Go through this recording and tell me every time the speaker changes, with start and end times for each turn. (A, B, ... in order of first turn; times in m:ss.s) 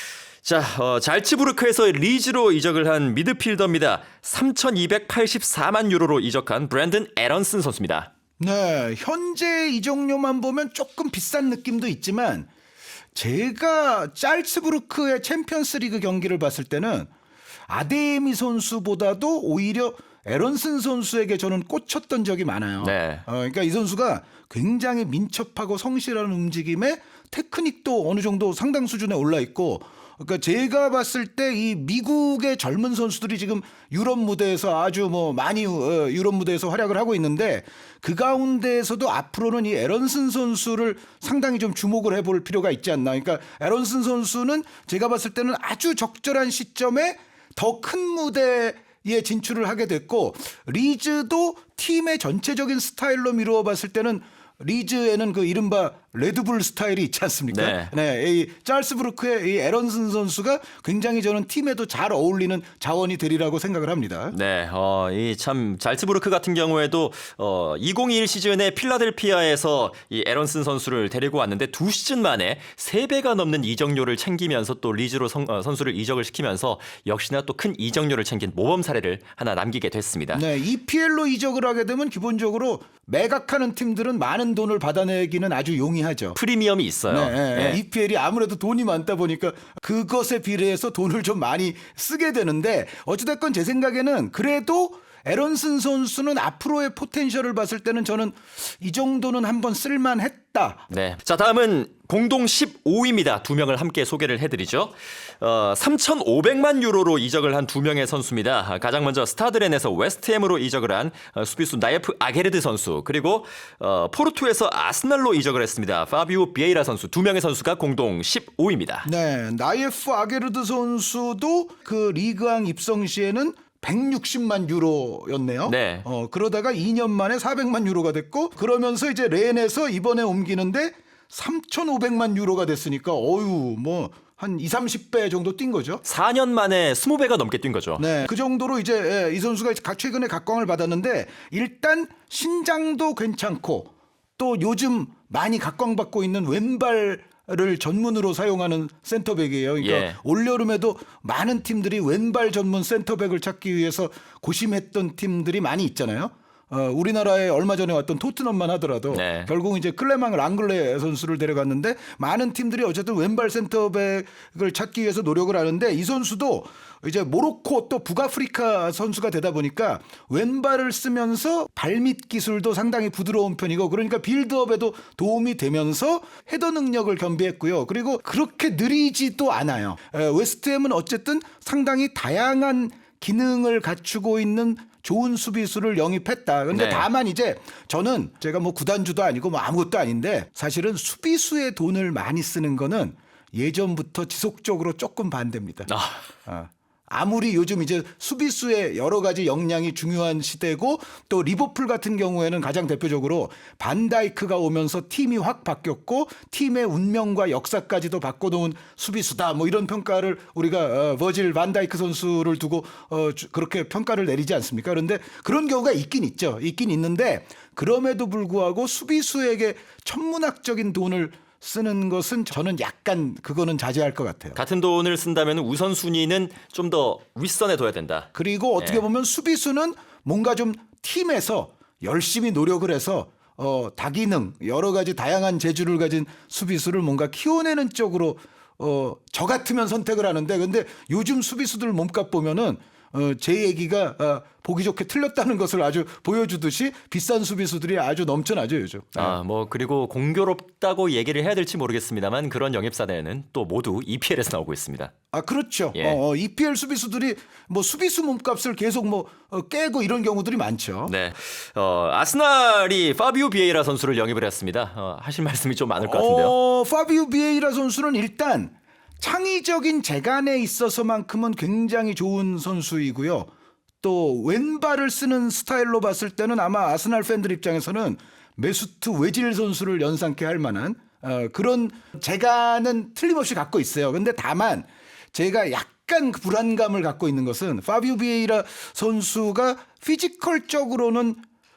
0:00.4-0:08.1 A
0:08.4-0:12.5 B
0:13.1-0:17.1 B
0:17.7-1:04.3 B
0:22.8-0:23.2 A
0:57.5-0:57.9 A
1:04.3-1:20.4 A
1:20.3-1:26.4 B
1:26.4-1:27.8 A
1:27.1-1:40.8 B
1:40.9-1:59.1 A
1:59.0-2:16.0 B
2:05.6-2:06.0 A
2:16.0-2:18.0 A
2:18.0-3:15.9 B
2:29.8-2:30.2 A
2:39.1-2:39.5 A
3:06.7-3:07.1 A
3:15.9-3:16.2 A
3:16.4-3:44.6 B
3:44.6-3:49.0 A
3:48.3-4:09.4 B
4:09.2-4:15.1 A
4:15.3-4:21.1 B
4:21.1-4:26.5 A
4:26.0-4:33.5 B
4:34.0-4:51.4 B